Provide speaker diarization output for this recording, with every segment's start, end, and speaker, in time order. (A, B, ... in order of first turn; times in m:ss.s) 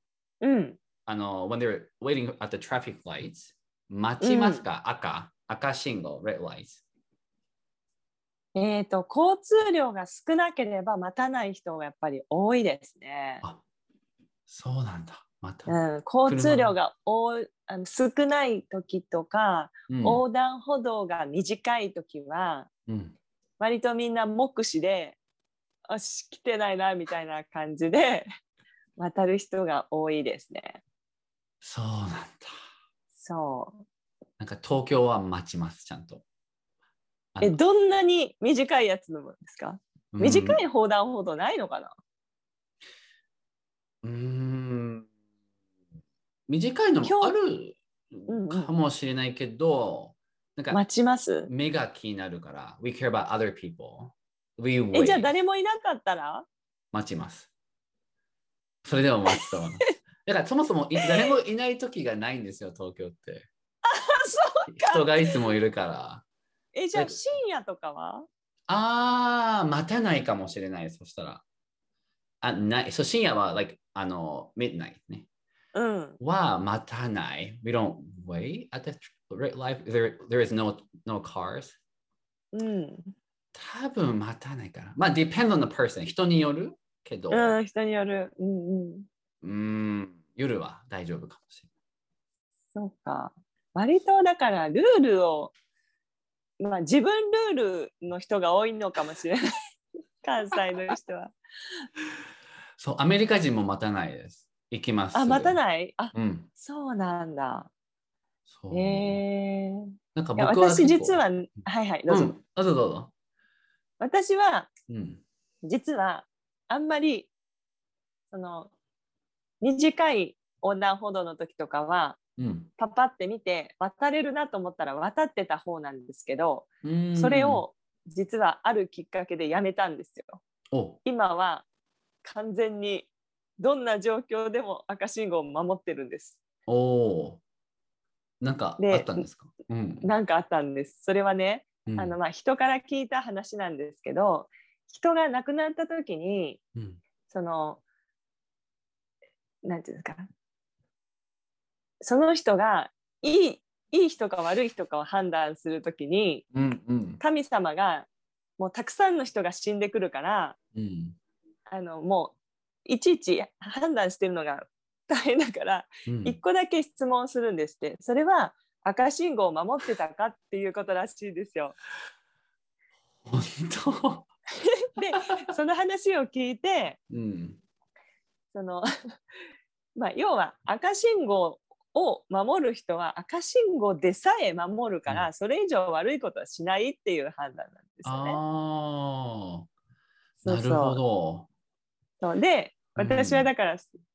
0:00.4-0:00.8 A
0:01.0-0:06.8 B
0:04.2-0:04.6 A
0:08.6-0:13.4 A
0:14.5-0:16.8 B
0:15.7-0:22.7 A
0:19.9-0:20.2 B
0:22.9-0:23.2 B
0:23.6-0:25.2 A
0:25.9-0:28.3 A
0:29.0-0:30.8 A
0:31.6-0:32.6 B
0:33.2-0:33.8 A
0:34.4-0:36.2 B
0:37.4-0:41.9 A
0:40.1-0:40.6 B
0:44.0-0:45.1 B
0:46.5-0:50.8 B
0:47.0-0:47.3 A
0:48.3-0:48.7 A
0:50.7-0:51.5 A
0:51.4-0:55.3 B
0:54.9-0:56.5 A
0:56.9-0:57.5 B
0:58.8-1:03.5 B
0:59.3-0:59.6 A
1:03.8-1:05.3 A
1:04.7-1:06.2 B
1:06.7-1:08.3 A
1:06.9-1:07.2 B
1:08.7-1:11.4 B
1:12.4-1:15.3 B
1:15.7-1:16.2 A
1:16.2-1:21.8 B
1:22.5-1:23.1 A
1:23.5-1:27.6 B
1:27.3-1:29.1 A
1:29.4-1:31.7 B
1:32.7-1:35.5 A
1:36.6-1:39.4 A
1:40.2-1:41.4 A
1:42.8-1:45.6 B
1:45.1-1:47.7 A
1:46.1-1:46.5 B
1:48.5-1:49.2 B
1:48.7-1:52.3 A
1:50.1-1:51.2 B
1:52.1-1:53.1 B
1:54.0-1:54.7 A
1:54.9-1:55.2 B
1:55.6-1:57.3 A
1:58.3-1:58.7 A
1:59.6-2:02.2 A
2:02.4-2:02.7 B
2:02.8-2:10.4 A
2:06.8-2:07.6 B
2:10.7-2:11.0 B
2:11.0-2:11.6 A
2:12.2-2:16.4 A
2:16.7-2:17.4 B
2:18.4-2:20.1 B
2:18.8-2:19.2 A
2:20.0-2:26.6 A
2:21.9-2:22.2 B
2:26.7-2:27.0 B
2:27.3-2:27.8 A
2:29.6-2:30.2 A
2:32.0-2:36.4 A
2:36.5-2:37.2 B
2:37.2-2:38.1 A
2:38.6-2:40.6 A
2:40.7-2:41.2 B
2:41.7-2:51.8 A
2:46.1-2:46.4 B
2:53.2-2:54.3 B
2:54.8-2:57.0 A
2:55.1-2:55.4 B
2:57.1-2:57.6 B
2:58.5-2:58.9 A
2:59.9-3:08.4 A
3:08.0-3:09.7 B
3:10.4-3:11.0 A
3:10.4-3:11.5 B
3:12.2-3:13.9 A
3:13.0-3:13.5 B